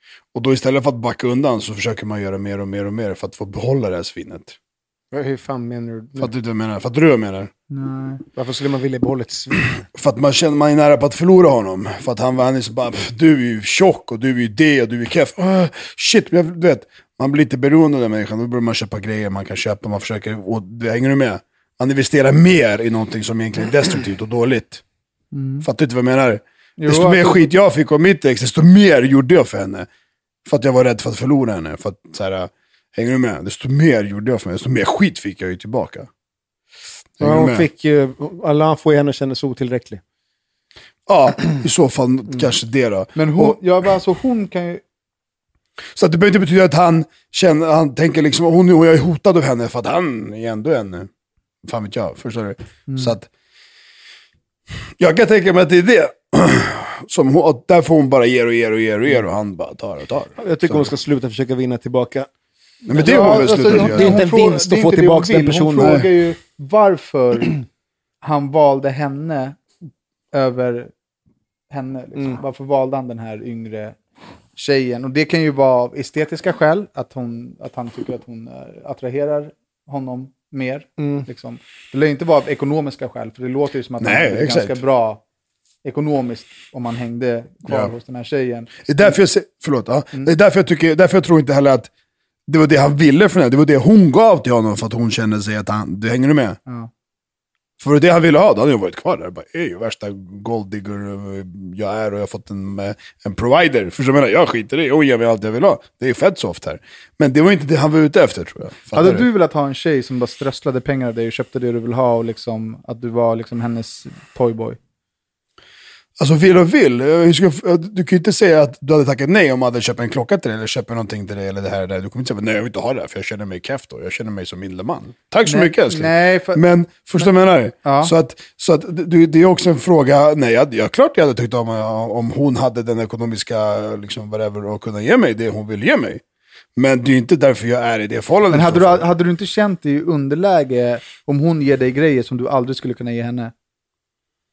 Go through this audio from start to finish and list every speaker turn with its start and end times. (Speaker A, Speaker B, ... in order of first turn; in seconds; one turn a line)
Speaker A: 0.3-4.6
Speaker B: 5.1-6.3
Speaker A: 6.2-7.5
Speaker C: 7.7-8.2
Speaker B: 8.3-9.8
Speaker A: 9.9-24.8
Speaker C: 25.3-25.7
Speaker A: 25.6-29.9
Speaker C: 26.8-27.5
Speaker A: 30.5-36.1
Speaker A: 37.2-37.7
Speaker B: 37.2-40.0
Speaker A: 41.1-43.6
Speaker C: 43.2-44.8
Speaker A: 46.0-51.1
Speaker A: 51.6-53.3
Speaker C: 52.9-53.1
Speaker A: 55.0-60.9
Speaker B: 60.4-62.3
Speaker A: 62.9-64.2
Speaker B: 62.9-66.0
Speaker C: 63.0-67.6
Speaker A: 65.8-66.0
Speaker C: 68.2-69.6
Speaker C: 70.3-70.9
Speaker C: 71.7-74.0
Speaker C: 74.6-85.2
Speaker B: 81.0-81.3
Speaker A: 84.0-84.8
Speaker C: 85.8-89.2
Speaker A: 87.7-87.9
Speaker A: 88.9-91.9
Speaker A: 92.5-96.6
Speaker A: 97.8-109.3
Speaker C: 108.9-114.8
Speaker A: 116.2-136.2
Speaker C: 125.5-126.6
Speaker C: 127.8-128.1
Speaker A: 136.8-139.1
Speaker C: 138.5-143.5